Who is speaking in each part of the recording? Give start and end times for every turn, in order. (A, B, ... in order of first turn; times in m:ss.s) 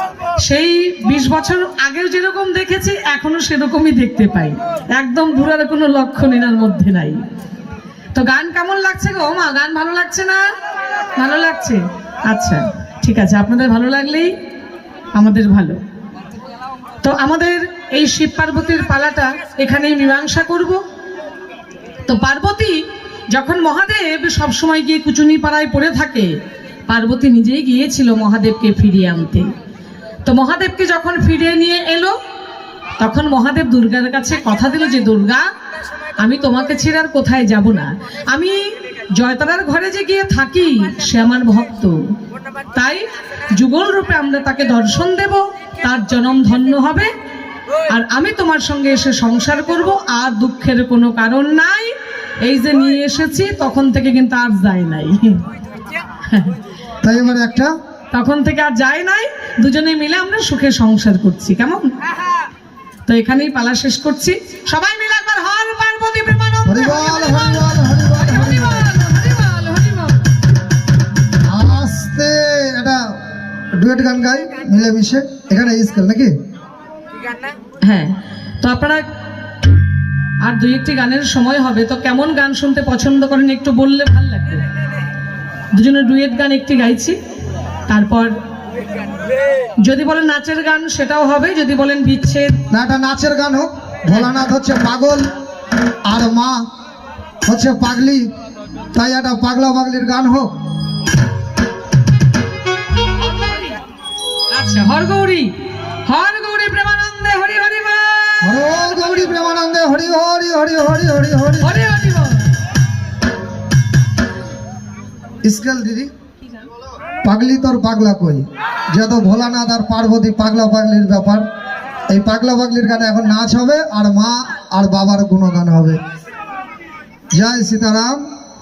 0:00.4-0:07.2 A
0:08.1-0:10.4 A
0:11.2-0:14.3 A
0:15.2-0:15.8 A
0:17.0-0:20.8 A
0:22.0-0:26.3 A
0:26.9-0:29.5 A
0:30.2-0:32.1 A
0:33.0-0:35.5 A
0:36.2-0:38.6 A
0:39.2-0:42.0 A
0:42.7-0:47.1 A
0:47.9-0:55.5 A
0:56.2-0:56.6 A
0:57.0-0:57.7 B
0:58.1-1:01.9 A
1:03.1-1:10.3 A
1:06.6-1:08.9 B
1:11.5-1:13.0 B
1:13.8-1:16.4 B
1:17.8-1:19.0 A
1:20.4-1:24.6 A
1:25.7-1:27.2 A
1:27.9-1:28.3 A
1:29.8-1:32.6 A
1:32.7-1:35.3 B
1:36.0-1:36.7 B
1:37.5-1:38.3 B
1:38.9-1:40.6 B
1:43.2-1:43.8 A
1:44.5-1:45.5 A
1:46.0-1:49.3 A
1:48.4-1:51.8 B
1:51.6-1:52.4 A
1:55.4-1:56.1 B
1:57.2-2:01.4 B
2:02.1-2:06.0 B
2:07.3-2:08.2 B